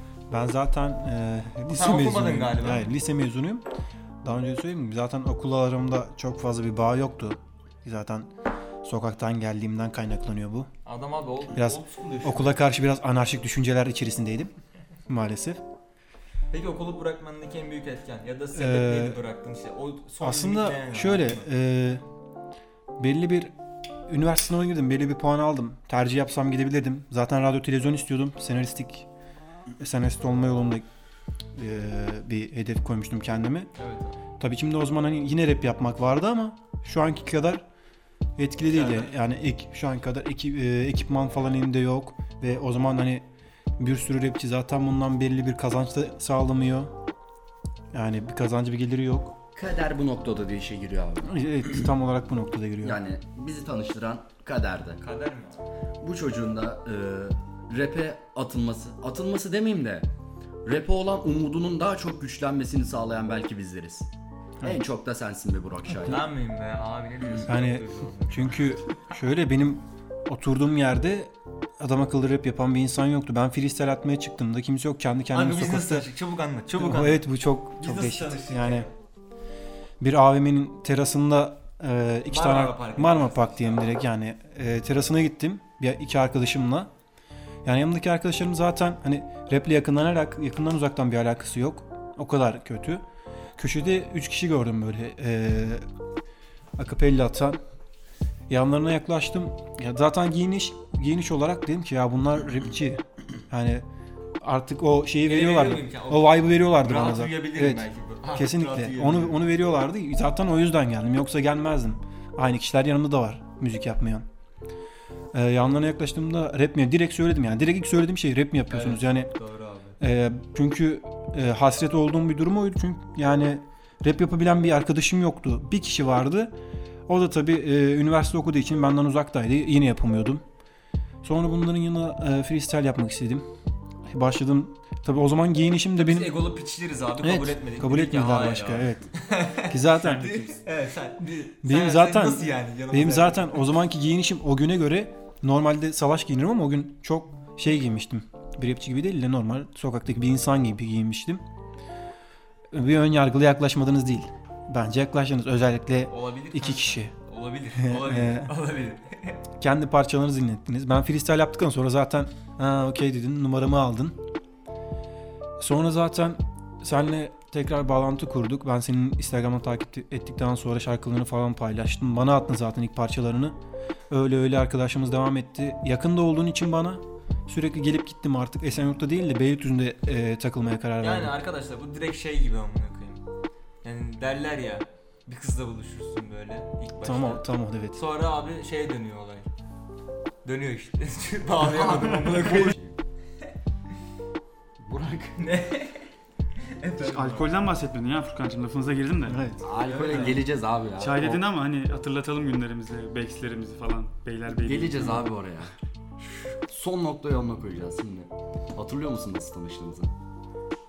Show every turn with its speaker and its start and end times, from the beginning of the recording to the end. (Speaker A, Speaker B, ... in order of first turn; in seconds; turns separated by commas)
Speaker A: 0.3-3.6, Speaker B: 1.7-2.9, Speaker A: 4.2-8.3, Speaker A: 8.8-10.7, Speaker B: 10.8-12.6, Speaker A: 11.5-14.5, Speaker A: 15.1-15.6, Speaker B: 16.5-21.4, Speaker A: 18.6-19.2, Speaker A: 20.2-22.0, Speaker A: 23.0-23.5, Speaker A: 24.1-29.1, Speaker A: 29.8-30.8, Speaker A: 31.6-33.7, Speaker B: 33.8-34.2, Speaker A: 34.4-37.6, Speaker A: 38.4-43.2, Speaker B: 38.7-39.1, Speaker A: 43.8-46.9, Speaker A: 47.9-49.3, Speaker C: 49.5-51.3, Speaker A: 51.2-53.0, Speaker C: 52.8-55.0, Speaker B: 55.0-55.6, Speaker C: 56.0-60.1, Speaker C: 60.6-64.1, Speaker C: 64.6-66.2, Speaker B: 66.0-68.6, Speaker A: 67.5-76.1, Speaker B: 75.3-77.3, Speaker A: 76.7-78.9, Speaker B: 77.8-78.9, Speaker A: 80.0-86.9, Speaker B: 82.3-84.0, Speaker A: 87.6-93.0, Speaker A: 93.6-95.8, Speaker A: 96.8-97.6, Speaker A: 98.5-103.8, Speaker A: 104.4-114.2, Speaker B: 105.2-109.4, Speaker A: 115.3-119.3, Speaker B: 118.7-120.0, Speaker A: 120.0-126.5, Speaker A: 127.1-130.4, Speaker A: 131.2-133.4, Speaker A: 134.1-136.4, Speaker B: 136.0-143.6, Speaker A: 137.2-140.6, Speaker A: 141.6-151.4, Speaker A: 152.7-157.1, Speaker B: 156.1-159.4, Speaker A: 157.8-158.5, Speaker A: 159.6-164.2, Speaker A: 165.6-173.6, Speaker A: 174.1-181.3, Speaker B: 181.0-183.2, Speaker B: 183.8-189.5, Speaker A: 187.0-188.0, Speaker B: 190.4-192.8, Speaker C: 191.6-192.9, Speaker C: 194.8-195.4, Speaker B: 195.4-196.1, Speaker B: 196.6-197.5, Speaker D: 197.0-199.5, Speaker A: 199.3-199.6, Speaker C: 199.6-201.4, Speaker B: 199.8-200.4, Speaker D: 201.0-205.3, Speaker C: 204.5-205.7, Speaker C: 206.7-210.1